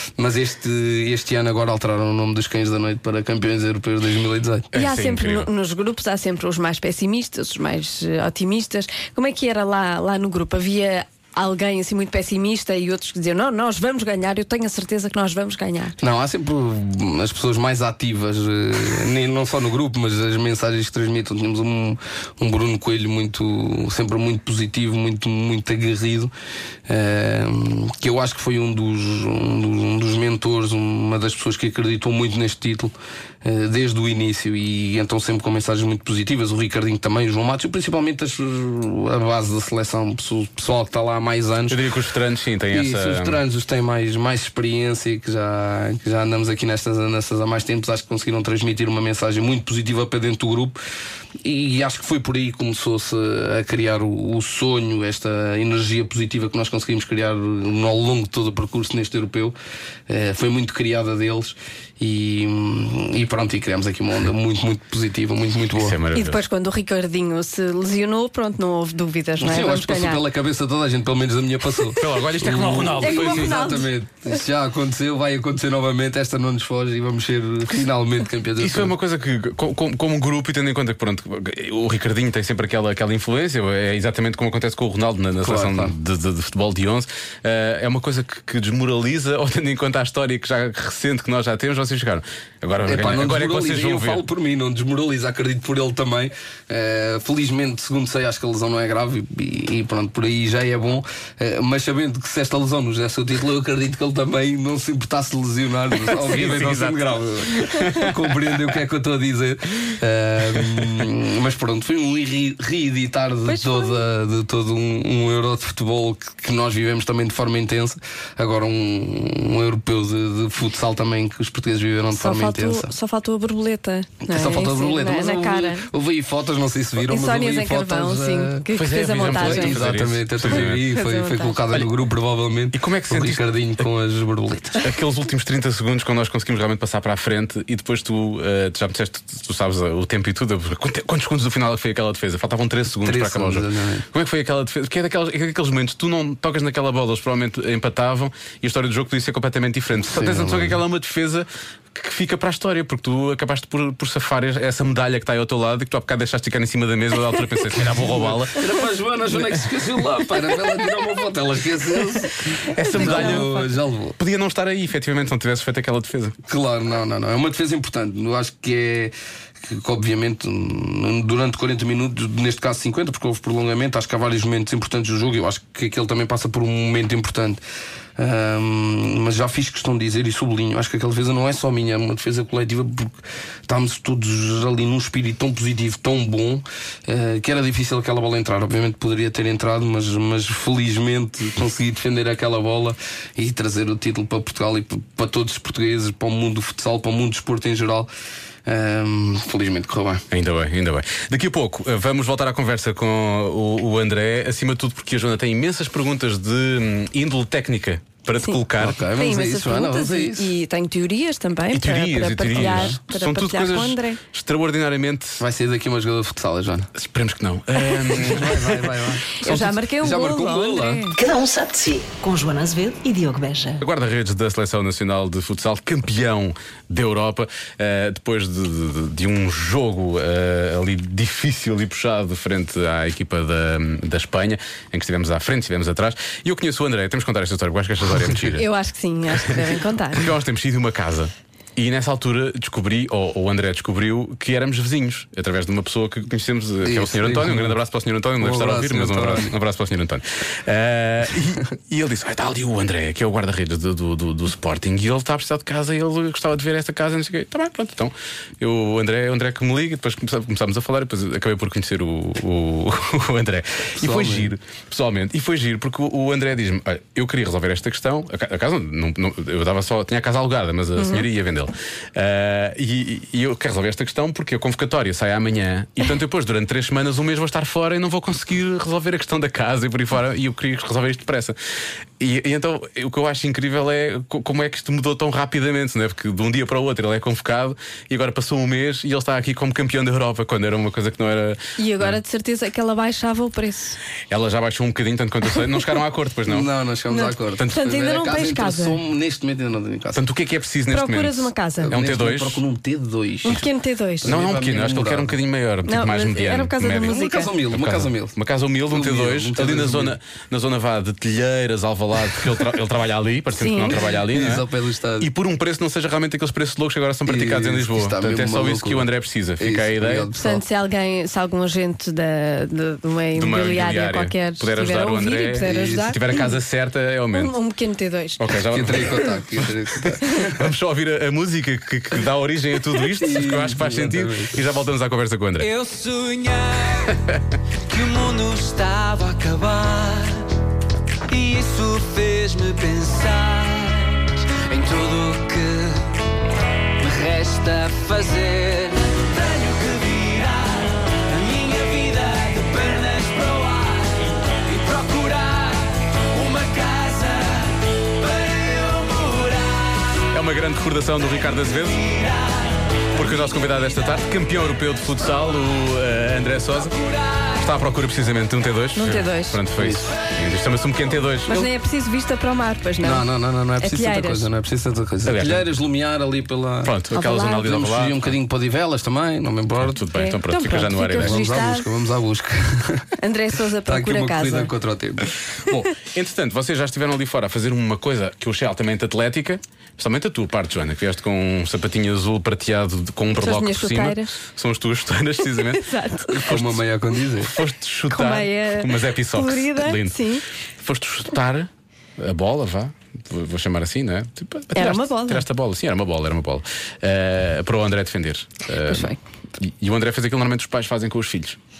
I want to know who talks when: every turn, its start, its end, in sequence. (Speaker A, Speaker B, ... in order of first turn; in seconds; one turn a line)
Speaker A: 0.2-4.7
Speaker B: 4.7-5.5
Speaker C: 4.7-16.0
Speaker A: 16.0-26.3
Speaker A: 26.9-32.9
Speaker A: 33.4-41.8
Speaker B: 41.7-43.4
Speaker A: 42.7-50.8
Speaker A: 51.4-59.6
Speaker A: 60.1-66.0
Speaker B: 65.8-66.4
Speaker C: 66.1-70.2
Speaker A: 69.4-78.9
Speaker B: 72.0-73.7
Speaker C: 73.0-73.9
Speaker B: 78.6-94.2
Speaker A: 85.4-85.9
Speaker A: 92.8-122.9
Speaker B: 106.0-108.5
Speaker C: 113.4-114.0
Speaker C: 122.1-125.9
Speaker A: 124.2-128.7
Speaker C: 127.0-129.9
Speaker B: 128.7-130.9
Speaker A: 129.2-134.8
Speaker C: 130.5-131.7
Speaker B: 132.7-133.8
Speaker B: 134.8-158.7
Speaker A: 143.0-144.1
Speaker A: 150.1-150.8
Speaker A: 157.9-164.2
Speaker B: 159.3-160.5
Speaker B: 162.8-163.5
Speaker C: 162.9-163.7
Speaker B: 164.2-166.3
Speaker A: 166.5-169.1
Speaker A: 169.7-177.6
Speaker A: 178.2-183.2
Speaker A: 183.7-198.1
Speaker A: 198.7-200.2
Speaker B: 200.3-209.0
Speaker C: 208.4-214.2
Speaker A: 208.8-210.5
Speaker B: 211.7-215.4
Speaker A: 212.5-213.0
Speaker A: 215.4-216.9
Speaker B: 216.9-219.8
Speaker C: 217.9-218.2
Speaker A: 218.1-219.4
Speaker C: 219.3-221.2
Speaker A: 220.0-221.0
Speaker D: 221.1-223.8
Speaker B: 223.8-238.7
Speaker C: 238.5-240.3
Speaker B: 239.5-281.6
Speaker A: 246.8-247.8
Speaker A: 248.4-249.5
Speaker A: 264.0-264.5
Speaker C: 271.0-271.2
Speaker B: 282.2-292.2
Speaker C: 291.8-294.0
Speaker B: 294.3-296.7
Speaker A: 296.5-300.2
Speaker C: 297.1-299.0
Speaker B: 300.1-302.6
Speaker C: 300.9-302.0
Speaker A: 301.9-303.7
Speaker C: 303.4-304.4
Speaker A: 304.2-305.3
Speaker B: 304.2-314.6
Speaker C: 305.9-307.5
Speaker A: 307.1-308.4
Speaker A: 308.9-310.1
Speaker C: 313.6-314.0
Speaker A: 313.9-315.3
Speaker B: 315.2-320.3
Speaker A: 317.2-320.6
Speaker C: 320.4-326.5
Speaker B: 323.4-327.5
Speaker A: 325.6-326.1
Speaker C: 327.3-329.1
Speaker B: 328.4-335.7
Speaker A: 328.7-330.5
Speaker A: 333.2-334.6
Speaker E: 335.7-337.1
Speaker E: 337.9-340.5
Speaker E: 341.3-346.1
Speaker E: 347.0-360.1
Speaker B: 360.3-362.1
Speaker E: 362.1-362.7
Speaker B: 363.1-366.9
Speaker B: 367.5-371.7
Speaker C: 368.9-369.6
Speaker A: 369.8-370.1
Speaker C: 371.4-374.5
Speaker A: 373.0-376.9
Speaker B: 375.2-375.7
Speaker B: 376.8-378.3
Speaker C: 377.1-377.7
Speaker A: 377.6-380.0
Speaker B: 379.8-381.6
Speaker C: 380.1-381.9
Speaker A: 381.2-383.1
Speaker C: 383.2-384.7
Speaker A: 383.9-385.3
Speaker B: 385.6-396.8
Speaker C: 393.4-394.4
Speaker C: 395.5-396.4
Speaker A: 396.4-397.5
Speaker B: 397.4-400.2
Speaker C: 398.1-400.4
Speaker B: 400.8-411.6
Speaker C: 404.7-405.4
Speaker C: 408.8-409.2